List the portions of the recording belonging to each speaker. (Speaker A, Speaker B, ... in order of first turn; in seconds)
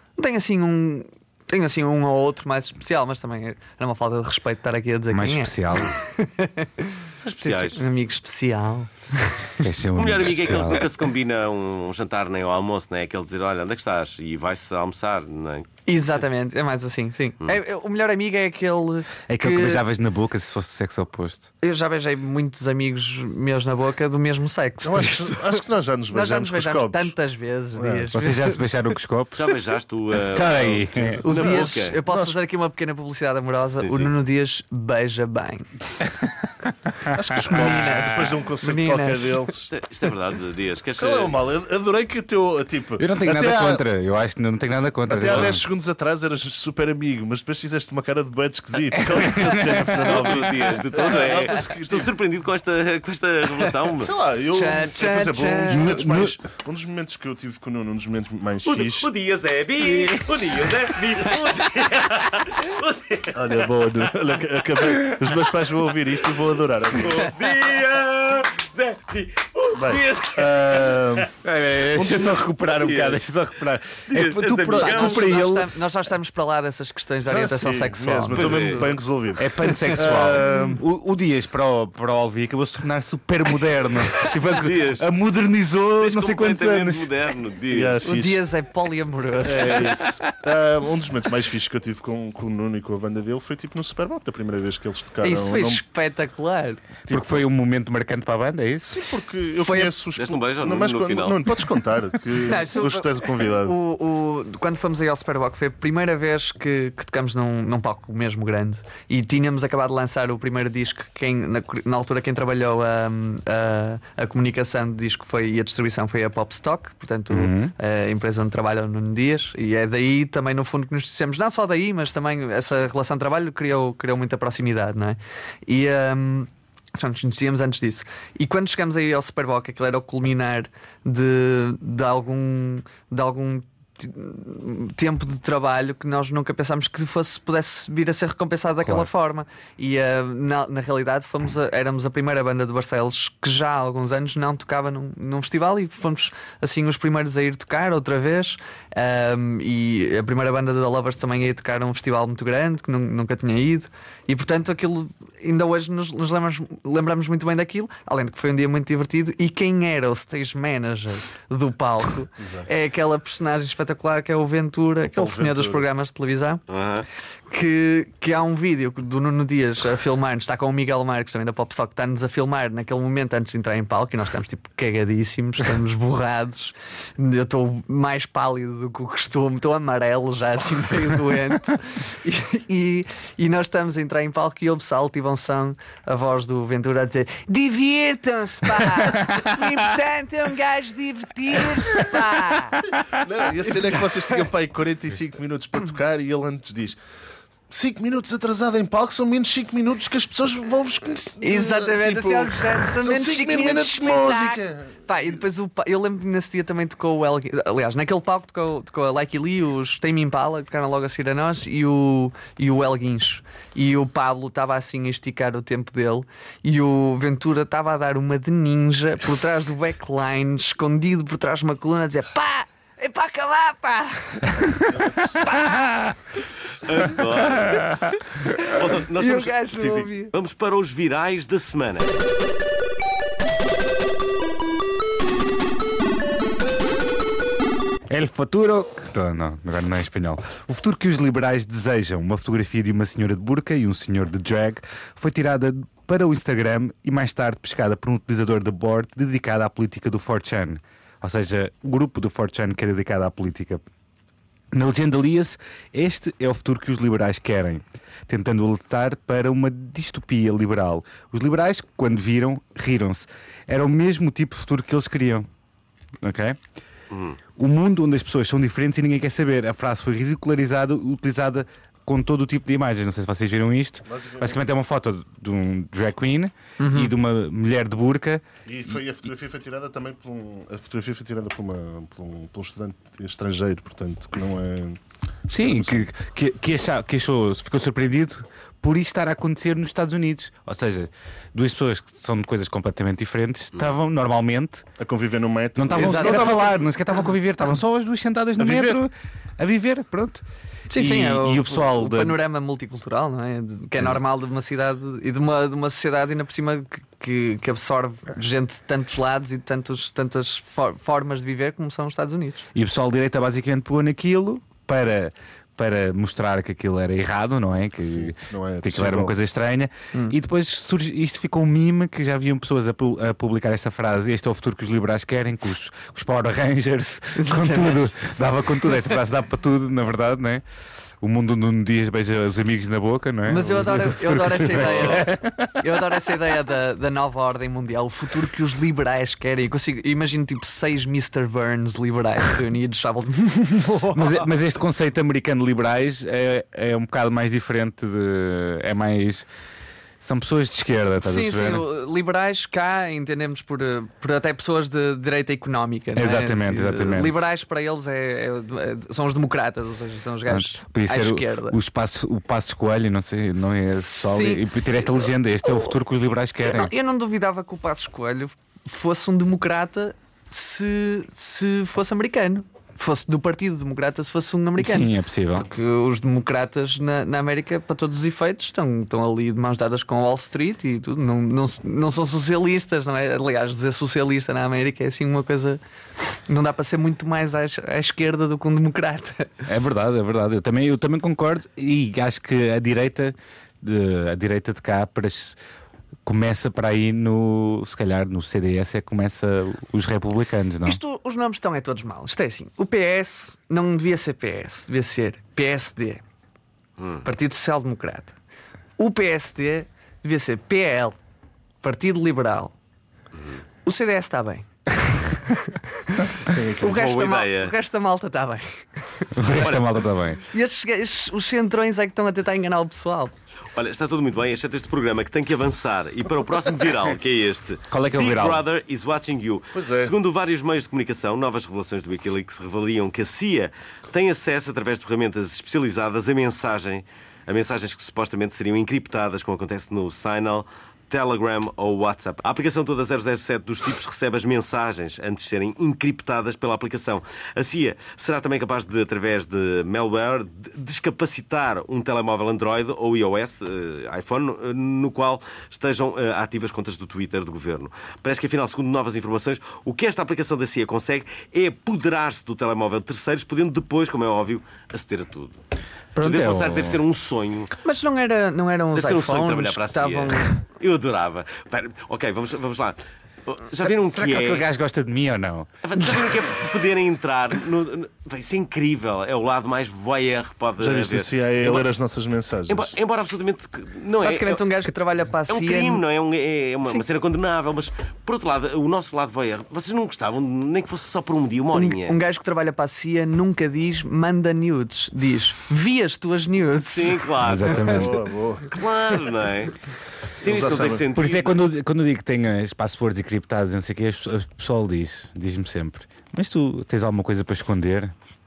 Speaker A: 0.2-9.7, 15.9-19.8, 21.6-28.7, 31.2-35.7, 37.5-39.5, 54.5-56.0, 74.8-78.9, 79.6-80.2, 88.0-90.0, 95.2-96.8, 99.6-100.0, 102.4-166.6, 167.5-192.9, 201.4-225.9, 228.6-230.3, 276.8-277.1, 295.9-296.6, 300.9-312.7, 327.4-328.2, 328.9-329.1, 333.5-344.5, 351.2-361.8, 363.9-364.7, 366.7-385.8, 386.5-389.6, 400.9-406.2, 407.2-408.4, 409.0-411.2, 411.8-412.8, 413.9-419.7, 420.4-423.3, 467.8-470.6, 484.2-486.0, 491.7-498.1
Speaker B: 5.1-6.0, 9.6-10.9, 19.3-21.5, 28.1-29.5, 30.3-31.2, 37.1-38.3, 43.0-45.6, 49.0-50.3, 55.7-56.4, 71.4-75.7, 79.4-87.1, 97.1-99.0, 117.3-117.7, 238.1-253.8, 254.7-265.5, 266.2-266.6, 267.6-278.4, 285.5-294.9, 295.8-302.4, 312.7-330.6, 331.2-335.7, 344.1-349.5, 350.2-351.9, 356.2-357.4, 360.5-366.9, 374.8-375.7, 389.7-395.6, 396.2-401.0, 419.4-420.4, 427.9-428.6, 466.1-467.0, 473.8-475.7, 497.4-498.2, 501.1-508.1
Speaker C: 7.2-7.8, 10.0-15.7, 29.3-32.0, 33.8-34.1, 39.7-41.4, 49.9-54.1, 58.6-63.7, 66.9-71.3, 72.0-73.2, 74.1-75.4, 78.3-78.9, 84.0-85.1, 86.0-88.0, 100.2-101.5, 166.7-167.1, 226.8-228.0, 228.6-232.2, 267.1-267.4, 334.8-335.3, 407.0-407.2, 416.8-417.7, 419.5-420.0, 423.8-465.6, 466.2-467.7, 468.9-474.7, 475.8-481.9, 482.7-484.8, 485.5-492.2, 496.9-498.1, 498.7-499.8, 500.4-501.6
Speaker D: 24.8-27.1, 27.8-28.1, 30.9-32.4, 37.1-39.7, 41.0-43.8, 45.1-52.1, 54.0-59.1, 63.3-67.3, 69.7-71.3, 77.3-80.8, 87.7-88.4, 89.4-95.8, 98.9-103.8, 162.4-162.7, 165.1-165.8, 193.1-197.0, 197.7-205.4, 274.1-274.6, 278.7-285.0, 285.5-286.1, 295.0-296.8, 298.6-299.0, 318.1-319.4, 416.5-416.9, 429.7-430.1, 480.8-483.0, 497.7-498.7, 500.4-501.1